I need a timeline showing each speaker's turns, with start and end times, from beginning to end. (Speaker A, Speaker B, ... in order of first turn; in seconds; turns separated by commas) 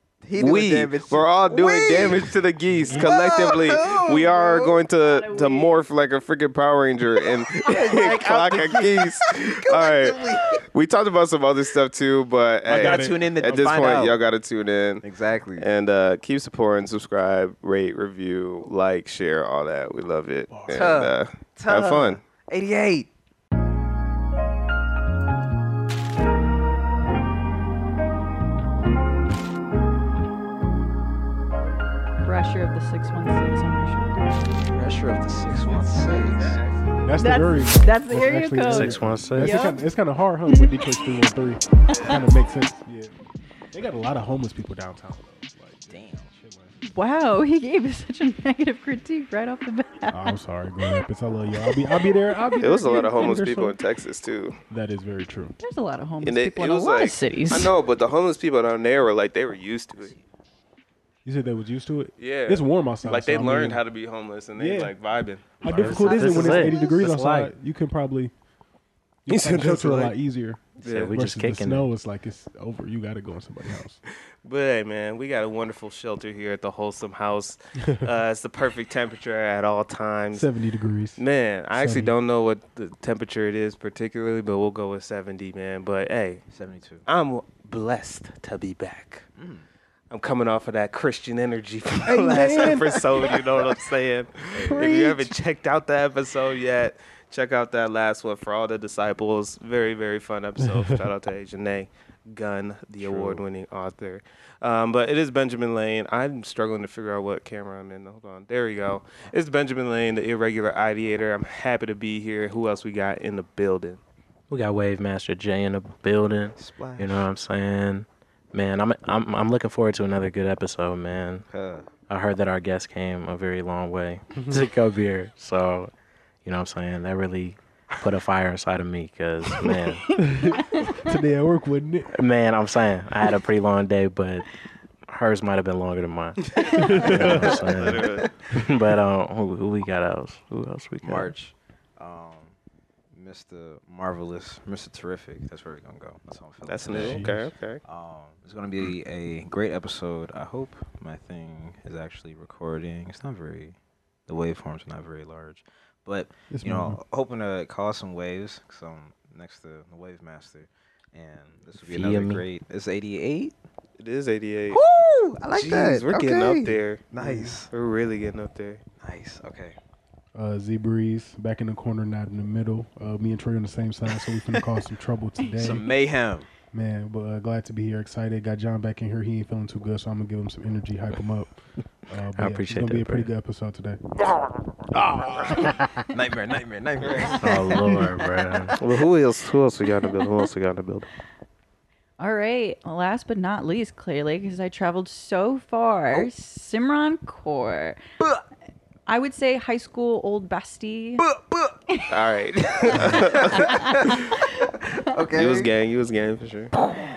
Speaker A: 0.2-4.8, Speaker B: 0.4-15.0, Speaker C: 2.7-3.1, Speaker D: 5.0-5.9, Speaker A: 7.5-10.6, Speaker C: 12.7-13.2, Speaker A: 12.7-14.2, Speaker A: 15.0-15.7, Speaker B: 15.6-22.2, Speaker C: 20.5-21.0, Speaker A: 20.7-23.1, Speaker D: 32.2-34.2, Speaker A: 34.6-36.6, Speaker B: 35.5-37.3, Speaker C: 37.0-43.1, Speaker D: 37.1-39.8, Speaker E: 38.6-39.7, Speaker D: 40.5-40.9, Speaker D: 41.9-42.2, Speaker C: 43.7-46.8, Speaker A: 45.9-46.3, Speaker D: 46.8-51.0, Speaker C: 50.1-53.8, Speaker D: 51.6-52.5, Speaker B: 52.6-54.6, Speaker C: 54.7-55.5, Speaker D: 55.6-57.7, Speaker B: 56.2-60.1, Speaker C: 61.2-63.8, Speaker B: 62.2-66.1, Speaker C: 64.5-64.9, Speaker C: 65.6-68.3, Speaker E: 65.7-67.5, Speaker D: 65.8-67.0, Speaker C: 69.2-74.0, Speaker B: 69.3-70.2, Speaker B: 70.8-71.1, Speaker E: 70.8-71.9, Speaker B: 74.1-80.5, Speaker C: 77.8-78.0, Speaker C: 80.3-81.2, Speaker B: 81.2-86.4, Speaker C: 81.7-82.1, Speaker A: 86.5-87.0, Speaker B: 87.0-89.2, Speaker A: 89.3-89.7, Speaker B: 90.1-114.0, Speaker C: 92.0-93.7, Speaker A: 94.5-94.9, Speaker C: 94.5-95.3, Speaker C: 100.6-101.0, Speaker C: 103.0-103.3, Speaker A: 103.1-103.4, Speaker E: 114.5-121.4, Speaker A: 116.6-117.3, Speaker A: 121.5-121.9, Speaker E: 122.1-125.9, Speaker C: 124.3-124.7, Speaker E: 126.4-130.0, Speaker D: 129.7-131.2, Speaker C: 130.2-132.1, Speaker E: 132.1-134.5, Speaker E: 135.1-141.3, Speaker C: 136.6-137.7, Speaker D: 136.6-137.3, Speaker B: 137.5-138.3, Speaker A: 141.0-142.5, Speaker A: 143.1-147.3, Speaker B: 146.7-147.8, Speaker C: 146.9-147.5, Speaker A: 147.8-153.8, Speaker A: 154.3-163.5, Speaker C: 156.5-157.0, Speaker E: 161.8-162.5, Speaker B: 164.0-164.8, Speaker A: 164.7-167.7, Speaker B: 165.5-167.0, Speaker C: 167.2-167.6, Speaker B: 167.7-168.8, Speaker A: 169.0-169.8, Speaker C: 170.3-175.8, Speaker A: 175.6-176.5, Speaker C: 176.7-181.5, Speaker C: 182.1-184.0, Speaker E: 182.4-183.3, Speaker C: 184.9-185.9, Speaker A: 186.1-188.9, Speaker E: 187.4-188.7, Speaker B: 188.8-191.1, Speaker D: 192.2-198.0, Speaker D: 199.1-201.3, Speaker A: 201.2-201.7, Speaker B: 202.1-204.3, Speaker D: 202.9-204.7, Speaker A: 202.9-205.7, Speaker B: 205.3-206.7